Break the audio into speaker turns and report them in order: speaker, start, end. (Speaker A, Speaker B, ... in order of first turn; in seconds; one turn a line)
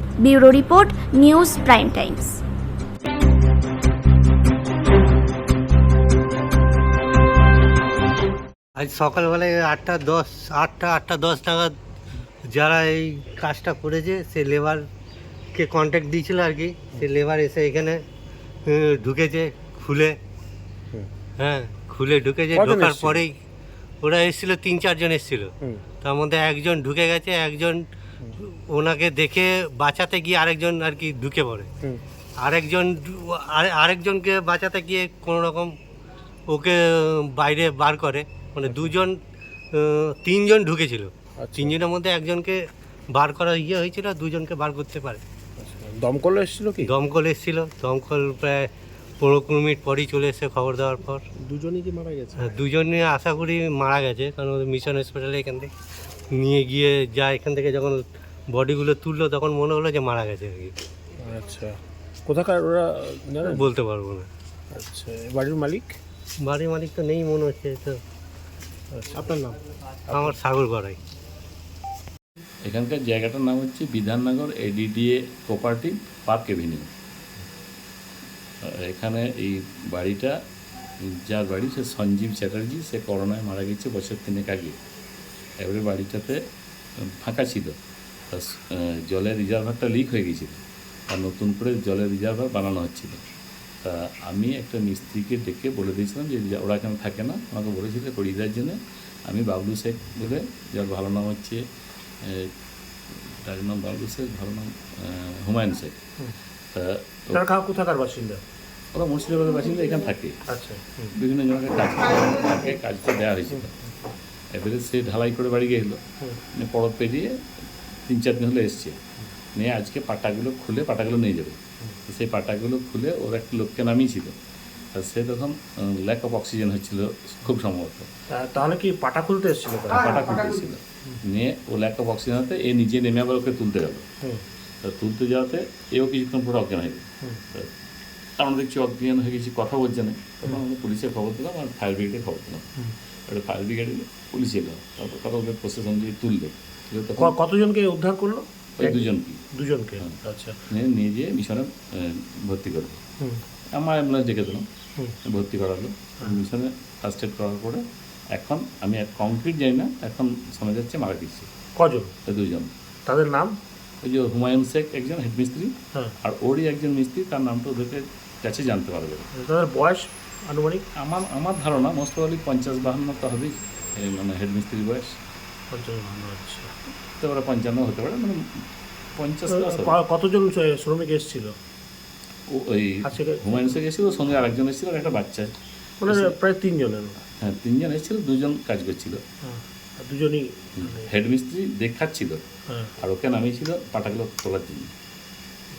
Speaker A: 0.2-2.4
Speaker B: 8.8-11.7
Speaker B: 12.5-14.8
Speaker B: 15.5-18.0
Speaker B: 18.6-20.2
Speaker B: 21.4-23.3
Speaker C: 22.5-23.2
Speaker B: 24.0-27.8
Speaker B: 28.4-31.7
Speaker B: 32.4-35.7
Speaker B: 36.5-39.2
Speaker C: 38.6-38.9
Speaker B: 39.7-42.6
Speaker C: 41.4-41.8
Speaker B: 43.1-45.2
Speaker C: 45.6-46.9
Speaker B: 46.8-48.7
Speaker B: 49.2-51.2
Speaker C: 51.4-52.5
Speaker B: 52.4-55.7
Speaker B: 56.3-60.7
Speaker C: 61.2-63.6
Speaker B: 63.4-64.3
Speaker C: 64.7-66.0
Speaker B: 66.4-68.0
Speaker C: 68.9-69.5
Speaker C: 70.1-70.3
Speaker B: 70.1-71.0
Speaker D: 72.6-76.9
Speaker D: 78.6-80.3
Speaker D: 81.0-84.8
Speaker D: 85.6-86.4
Speaker D: 87.1-87.8
Speaker D: 88.3-93.2
Speaker D: 93.8-101.6
Speaker D: 102.2-102.5
Speaker D: 103.2-106.0
Speaker D: 106.7-107.5
Speaker C: 107.3-108.4
Speaker D: 108.9-110.4
Speaker C: 110.5-111.1
Speaker D: 111.1-113.7
Speaker D: 114.5-116.0
Speaker D: 116.5-117.3
Speaker D: 118.1-119.0
Speaker D: 119.5-124.4
Speaker D: 124.9-128.1
Speaker C: 128.3-130.2
Speaker D: 129.9-134.0
Speaker D: 134.8-137.7
Speaker D: 138.4-142.7
Speaker D: 143.3-147.3
Speaker C: 147.2-150.6
Speaker D: 148.8-149.4
Speaker D: 150.7-153.0
Speaker D: 153.7-154.7
Speaker D: 155.2-161.5
Speaker C: 161.8-162.1
Speaker D: 162.2-162.7
Speaker C: 163.1-163.6
Speaker D: 164.0-169.3
Speaker C: 169.3-170.9
Speaker D: 170.9-175.2
Speaker C: 175.7-176.7
Speaker D: 177.2-178.4
Speaker D: 179.2-179.9
Speaker C: 179.5-181.6
Speaker D: 182.5-185.5
Speaker C: 183.0-183.6
Speaker C: 186.0-187.2
Speaker D: 186.1-186.4
Speaker D: 187.4-189.2
Speaker C: 189.4-191.1
Speaker D: 190.8-192.4
Speaker D: 193.0-194.9